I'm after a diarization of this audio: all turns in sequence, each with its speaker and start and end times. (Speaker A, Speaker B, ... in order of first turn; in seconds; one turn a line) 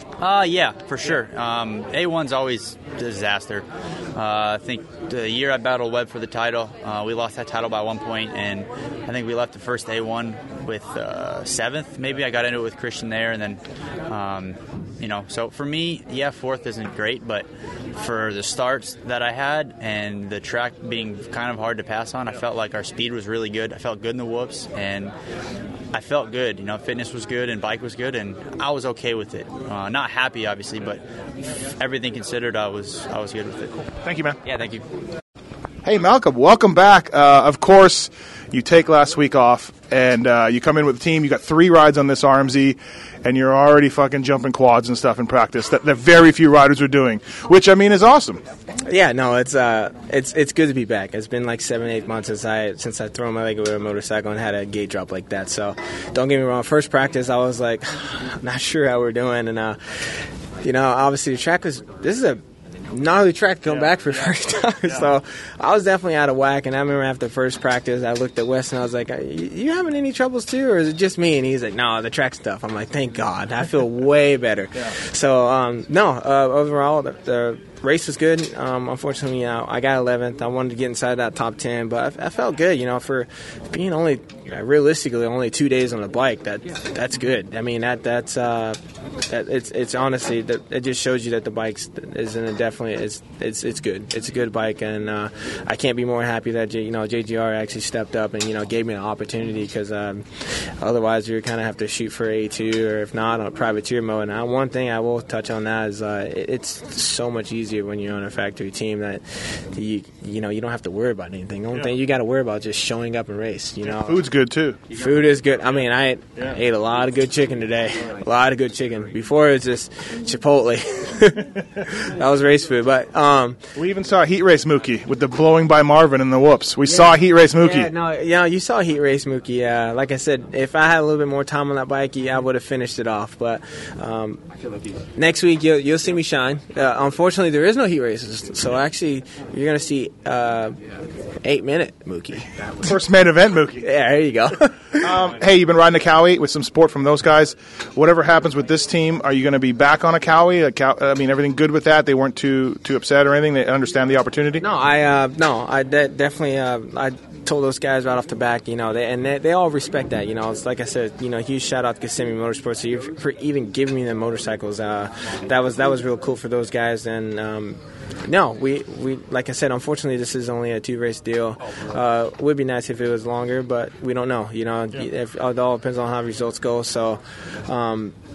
Speaker A: 0.2-25.1
Speaker A: 25.9-33.8
Speaker B: 34.0-34.4
Speaker A: 34.4-34.9
Speaker B: 35.9-48.4
Speaker C: 48.8-88.8
Speaker C: 89.3-114.2
Speaker B: 113.8-114.9
Speaker C: 114.9-123.6
Speaker B: 123.8-127.9
Speaker C: 126.8-134.4
Speaker C: 135.1-140.8
Speaker C: 141.4-142.7
Speaker B: 142.8-143.9
Speaker C: 143.8-145.2
Speaker B: 144.9-154.6
Speaker C: 154.6-178.1